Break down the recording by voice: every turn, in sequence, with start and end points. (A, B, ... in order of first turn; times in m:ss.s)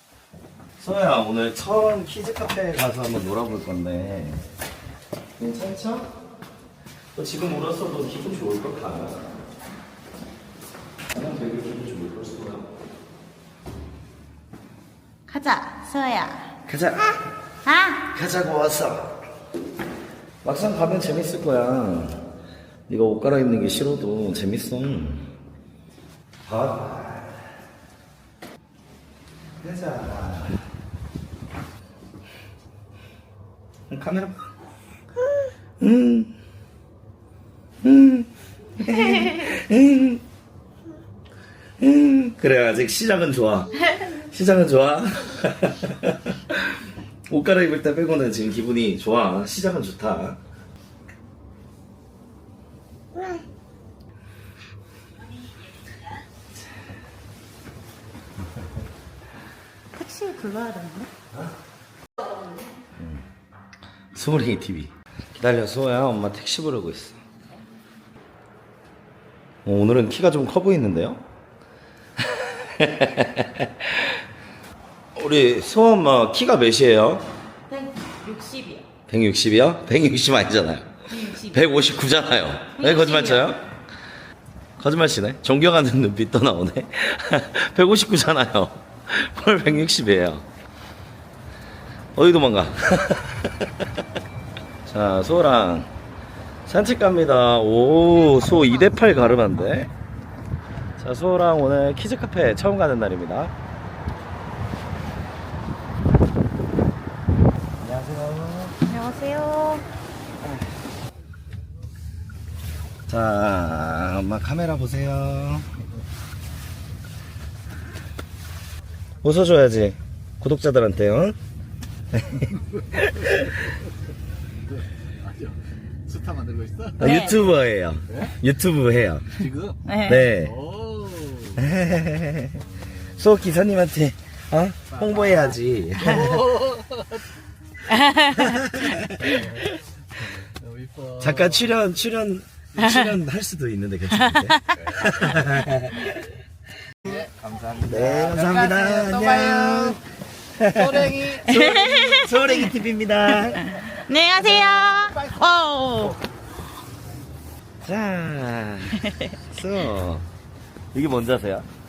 0:00.8-0:04.4 A
0:05.4-0:06.1 A
0:07.2-0:09.3 A
0:11.1-0:12.7 A
0:15.3-0:16.5 B
0:16.7-0:17.2 A
0:17.6-0:18.1 B
0:18.1-0:19.2 A
0:20.4-0:22.3 A
0:22.9-0:25.3 A
0:26.4-0:27.5 A
0:29.6-0:30.7 A
0:33.9-0:34.4 A
0:35.8-0:36.3 A
0:37.8-0:40.2 A
0:41.8-0:46.8 A
0:47.3-0:50.4 A
0:59.9-1:01.1 B
1:03.0-1:03.3 A
1:04.1-1:07.2 A
1:09.6-1:11.2 A
1:12.2-1:14.1 A
1:15.2-1:17.3 A
1:17.7-1:18.9 B
1:19.1-1:23.6 A
1:21.1-1:21.6 B
1:22.8-1:23.5 B
1:24.8-1:30.5 A
1:32.2-1:33.8 A
1:34.9-1:35.9 A
1:36.7-1:39.9 A
1:38.3-1:39.2 B
1:41.0-1:43.5 A
1:47.8-1:48.8 A
1:48.9-1:49.8 B
1:53.1-1:55.7 A
1:59.2-2:01.4 A
2:02.2-2:03.7 A
2:04.8-2:05.6 C
2:06.1-2:07.0 C
2:07.0-2:09.4 A
2:07.0-2:07.4 B
2:09.4-2:09.8 C
2:09.8-2:10.3 B
2:10.0-2:10.6 A
2:10.5-2:11.6 C
2:11.6-2:16.5 A
2:16.4-2:16.8 C
2:17.9-2:18.7 B
2:18.4-2:19.3 A
2:19.4-2:19.7 C
2:20.6-2:21.6 C
2:21.2-2:26.2 A
2:24.4-2:24.7 B
2:27.1-2:29.8 C
2:27.8-2:30.0 A
2:30.6-2:33.6 A
2:30.7-2:31.4 C
2:31.5-2:32.7 B
2:33.6-2:36.2 B
2:37.8-2:40.3 A
2:40.9-2:41.7 A